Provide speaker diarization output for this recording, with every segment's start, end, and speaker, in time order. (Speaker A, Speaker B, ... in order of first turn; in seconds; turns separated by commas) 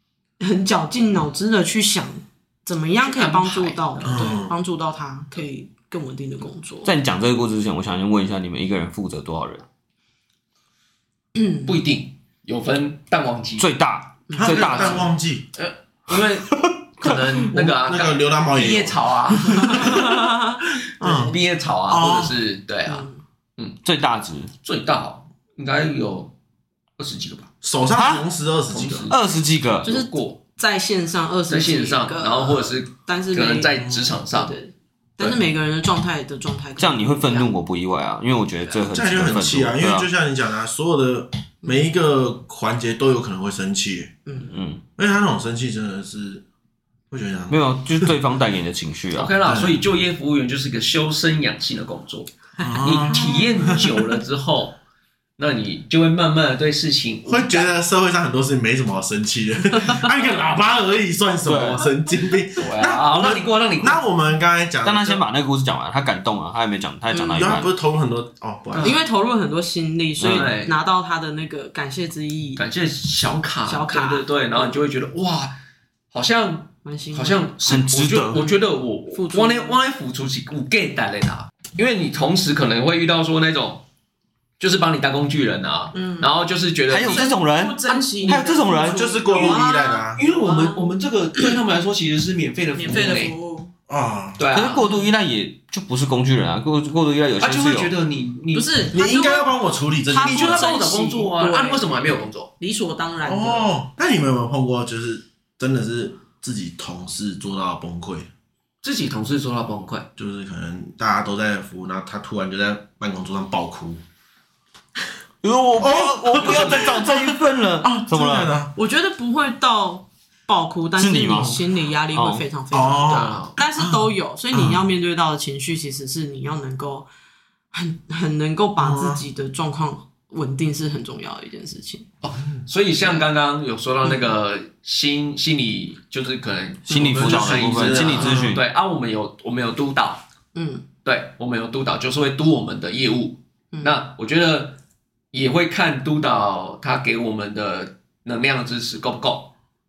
Speaker A: 0.4-6.9, Speaker B: 3.1-4.4, Speaker C: 4.0-4.5, Speaker D: 6.8-9.7, Speaker A: 11.3-11.7, Speaker B: 11.7-13.7, Speaker D: 13.6-15.1, Speaker A: 14.3-14.7, Speaker C: 14.3-15.5, Speaker B: 14.7-15.0, Speaker B: 15.6-20.3, Speaker C: 17.4-20.1, Speaker A: 19.4-21.3, Speaker C: 21.0-21.4, Speaker B: 21.0-23.8, Speaker C: 21.9-22.4, Speaker A: 22.9-23.2, Speaker D: 23.8-24.5, Speaker B: 24.6-26.3, Speaker B: 27.0-27.5, Speaker C: 27.6-29.1, Speaker D: 27.9-28.2, Speaker B: 28.7-29.1, Speaker D: 29.1-29.9, Speaker B: 29.8-30.4, Speaker A: 29.8-37.5, Speaker B: 31.5-34.5, Speaker C: 33.8-34.2, Speaker D: 36.8-40.1, Speaker C: 38.9-44.1, Speaker A: 44.2-44.6, Speaker D: 44.5-44.8, Speaker C: 45.0-46.4, Speaker C: 47.1-48.1, Speaker D: 47.5-49.3, Speaker B: 49.1-54.8, Speaker C: 49.4-49.8, Speaker C: 52.6-53.9, Speaker A: 52.6-54.0, Speaker B: 55.4-57.7, Speaker C: 57.2-65.2, Speaker D: 61.4-61.9, Speaker B: 62.6-64.0, Speaker D: 64.8-67.7, Speaker C: 67.1-69.0, Speaker B: 68.7-69.0, Speaker A: 68.8-72.6, Speaker D: 70.2-70.5, Speaker B: 70.3-70.7, Speaker B: 72.6-75.5, Speaker A: 73.7-74.8, Speaker B: 76.1-83.8, Speaker A: 76.8-77.5, Speaker D: 77.7-78.4, Speaker A: 78.3-78.6, Speaker A: 79.1-79.8, Speaker B: 84.6-87.3, Speaker A: 85.9-86.3, Speaker D: 86.9-89.1, Speaker A: 87.1-90.9, Speaker B: 87.8-88.6, Speaker C: 88.8-90.2, Speaker B: 89.2-93.3, Speaker A: 92.8-93.7, Speaker C: 93.9-94.4, Speaker B: 94.4-94.8, Speaker D: 94.5-97.9, Speaker A: 94.8-95.1, Speaker B: 97.4-98.7, Speaker A: 98.5-99.5, Speaker C: 98.9-100.7, Speaker A: 100.1-103.7, Speaker B: 100.2-102.5, Speaker C: 103.2-108.3, Speaker B: 108.8-110.1, Speaker C: 110.2-114.0, Speaker D: 115.4-118.5, Speaker C: 115.8-118.7, Speaker A: 118.8-127.1, Speaker D: 121.0-122.4, Speaker C: 122.7-124.9, Speaker B: 123.0-123.5, Speaker A: 127.7-132.1, Speaker C: 128.8-129.2, Speaker B: 132.2-140.2, Speaker A: 134.0-134.3, Speaker D: 136.9-138.6, Speaker C: 136.9-138.6, Speaker A: 140.5-140.8, Speaker B: 141.0-144.8, Speaker B: 145.3-149.5